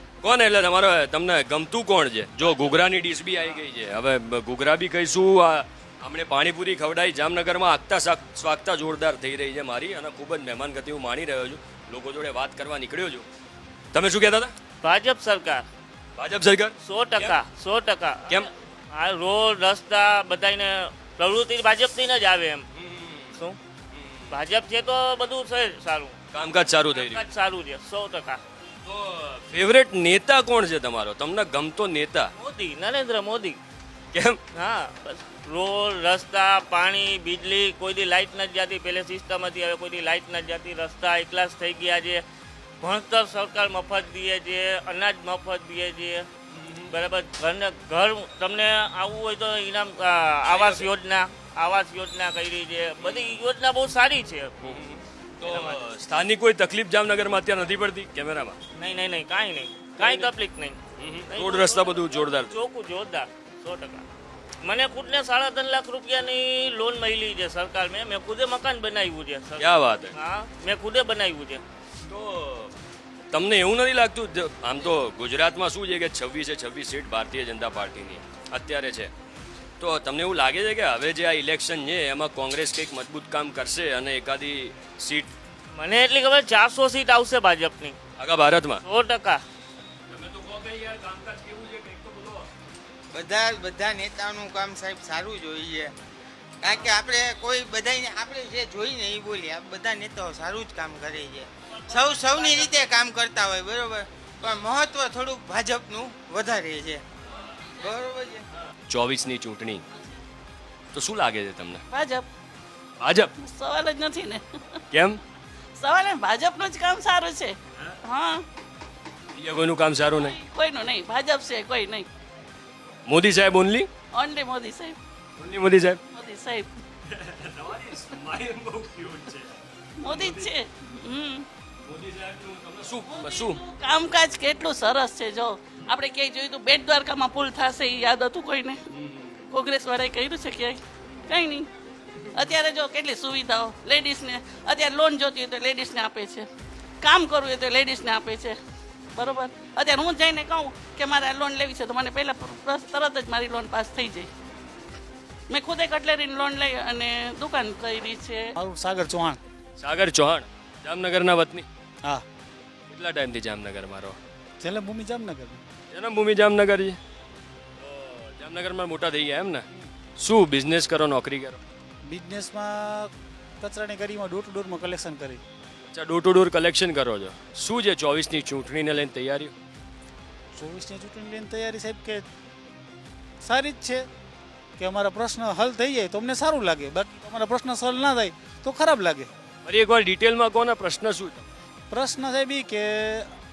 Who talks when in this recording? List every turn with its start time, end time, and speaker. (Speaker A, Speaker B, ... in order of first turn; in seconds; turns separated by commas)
Speaker A: 0.2-13.2, Speaker A: 13.9-14.5, Speaker B: 14.9-15.6, Speaker A: 16.1-17.4, Speaker B: 16.9-18.2, Speaker B: 19.0-22.6, Speaker A: 22.8-23.3, Speaker A: 23.9-24.3, Speaker B: 24.3-26.1, Speaker A: 26.3-27.3, Speaker B: 27.0-28.4, Speaker A: 28.8-32.3, Speaker B: 32.4-33.6, Speaker A: 34.1-34.4, Speaker B: 34.6-42.2, Speaker B: 42.8-46.2, Speaker A: 46.5-46.9, Speaker B: 46.9-54.5, Speaker A: 50.5-50.9, Speaker A: 53.0-53.4, Speaker A: 54.6-58.6, Speaker B: 58.8-60.8, Speaker A: 60.0-60.3, Speaker A: 61.0-62.5, Speaker B: 61.4-64.0, Speaker B: 64.7-69.6, Speaker A: 69.6-70.1, Speaker B: 70.3-71.6, Speaker A: 72.1-72.7, Speaker A: 73.3-79.1, Speaker A: 79.8-85.3, Speaker B: 85.8-87.9, Speaker A: 88.2-88.8, Speaker B: 89.0-89.4, Speaker A: 90.1-92.5, Speaker C: 93.1-95.9, Speaker C: 96.6-107.0, Speaker C: 107.8-108.4, Speaker A: 108.9-109.8, Speaker A: 110.9-111.8, Speaker D: 111.9-112.2, Speaker A: 113.0-113.3, Speaker D: 113.5-114.4, Speaker A: 114.9-115.2, Speaker D: 115.8-117.5, Speaker D: 118.0-118.4, Speaker A: 119.3-120.4, Speaker D: 120.3-122.0, Speaker A: 123.1-123.9, Speaker D: 124.2-125.0, Speaker A: 125.4-126.0, Speaker D: 126.1-126.7, Speaker A: 127.0-130.5, Speaker D: 130.1-131.5, Speaker A: 131.8-133.6, Speaker D: 133.2-138.8, Speaker B: 133.8-134.1, Speaker A: 138.9-139.4, Speaker D: 139.5-140.8, Speaker D: 141.3-141.7, Speaker D: 142.4-146.4, Speaker D: 147.1-148.6, Speaker D: 149.2-154.3, Speaker B: 149.2-149.8, Speaker D: 155.5-158.4, Speaker E: 158.6-159.4, Speaker A: 159.8-161.7, Speaker A: 162.9-164.2, Speaker E: 164.6-165.6, Speaker A: 165.9-167.0, Speaker A: 167.8-169.6, Speaker A: 170.2-171.6, Speaker E: 172.0-175.4, Speaker A: 175.9-179.5, Speaker E: 180.5-182.2, Speaker E: 183.4-184.0, Speaker E: 184.8-189.3, Speaker A: 189.6-191.5, Speaker E: 191.9-193.3